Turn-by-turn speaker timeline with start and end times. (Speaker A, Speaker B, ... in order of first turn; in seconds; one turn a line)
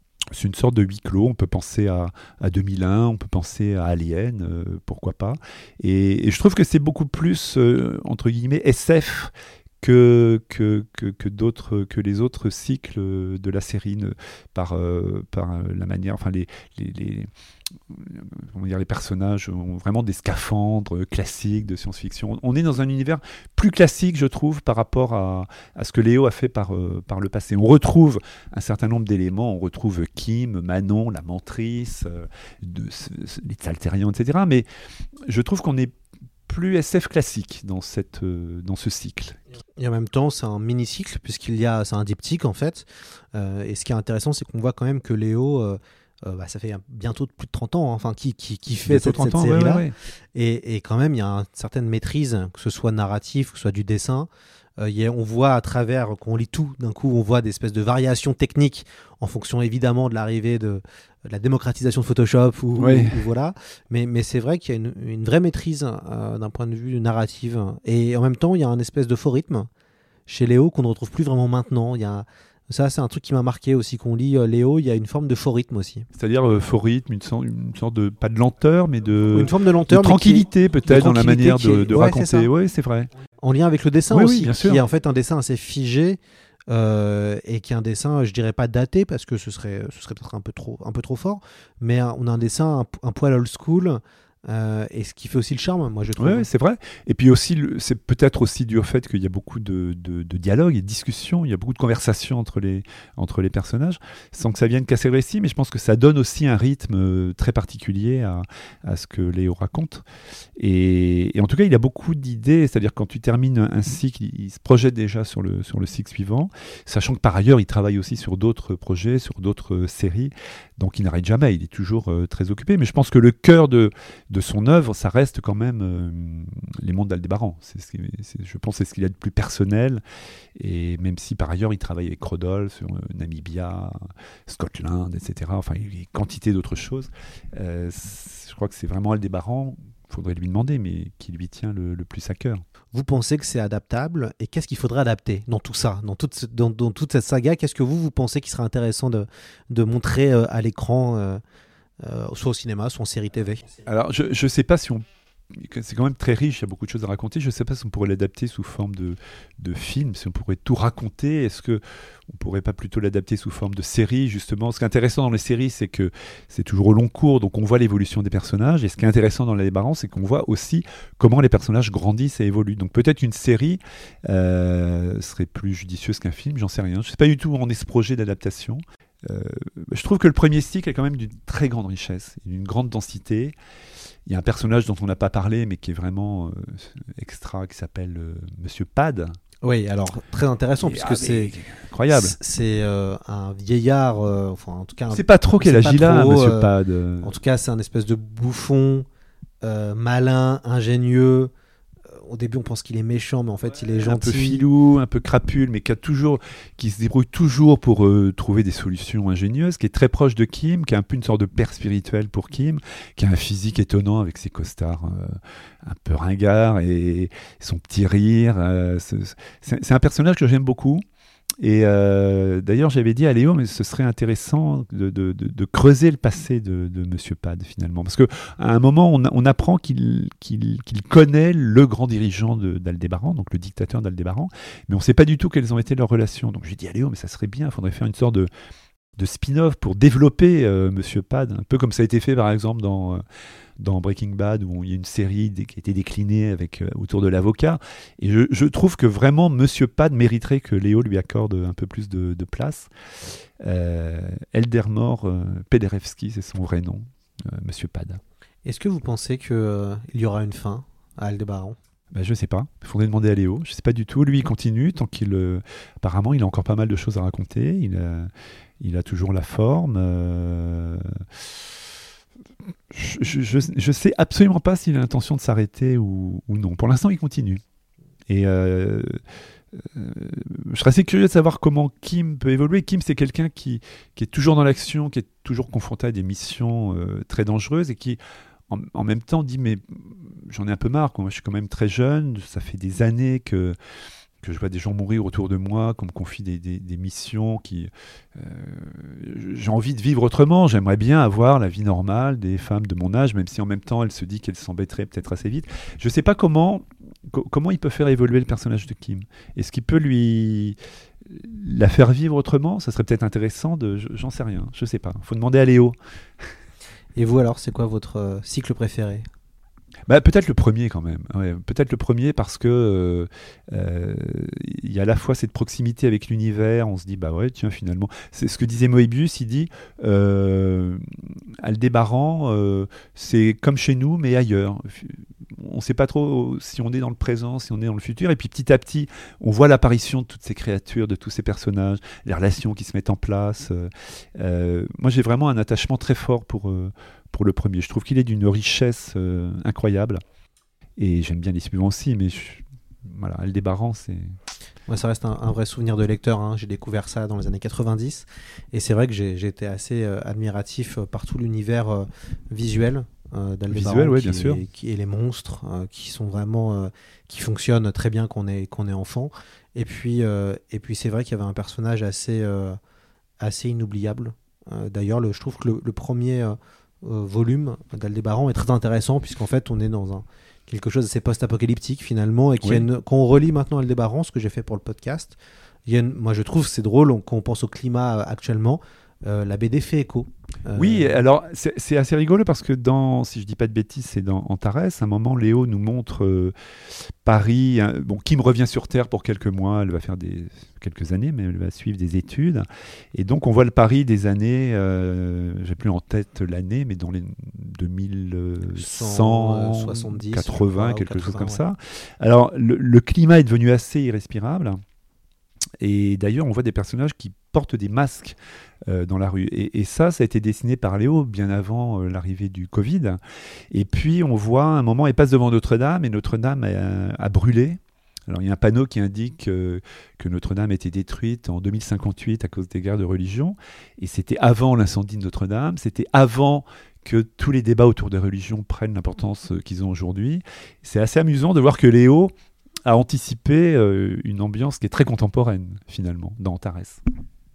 Speaker A: 0.3-17.3
Speaker A: 17.9-34.7
Speaker A: 35.3-35.9
Speaker A: 36.5-39.4
Speaker B: 39.8-69.7
Speaker A: 48.9-49.9
Speaker A: 62.8-63.2
Speaker B: 70.3-76.1
Speaker A: 76.1-83.1
Speaker B: 79.3-82.5
Speaker B: 83.4-96.5
Speaker A: 84.1-84.8
Speaker A: 96.2-110.0
Speaker A: 110.6-130.0
Speaker A: 130.6-142.6
Speaker B: 142.9-151.4
Speaker B: 152.0-153.7
Speaker A: 153.8-183.6
Speaker A: 184.3-189.4
Speaker B: 189.6-191.6
Speaker A: 190.8-192.4
Speaker B: 192.1-199.1
Speaker A: 195.1-197.3
Speaker B: 199.6-201.5
Speaker B: 202.1-204.7
Speaker A: 204.0-221.0
Speaker A: 221.6-238.5
Speaker A: 239.2-243.2
Speaker A: 243.8-252.9
Speaker A: 253.6-258.2
Speaker B: 258.6-261.8
Speaker A: 262.1-271.2
Speaker A: 272.9-277.6
Speaker A: 278.3-279.2
Speaker A: 279.7-293.8
Speaker A: 294.4-316.5
Speaker B: 317.2-319.2
Speaker A: 320.1-331.0
Speaker A: 331.6-350.2
Speaker A: 351.0-354.4
Speaker B: 354.9-372.8
Speaker A: 363.7-364.6
Speaker B: 373.4-391.2
Speaker A: 390.8-414.8
Speaker B: 408.8-411.6
Speaker A: 415.8-423.2
Speaker A: 423.7-442.3
Speaker A: 442.9-447.0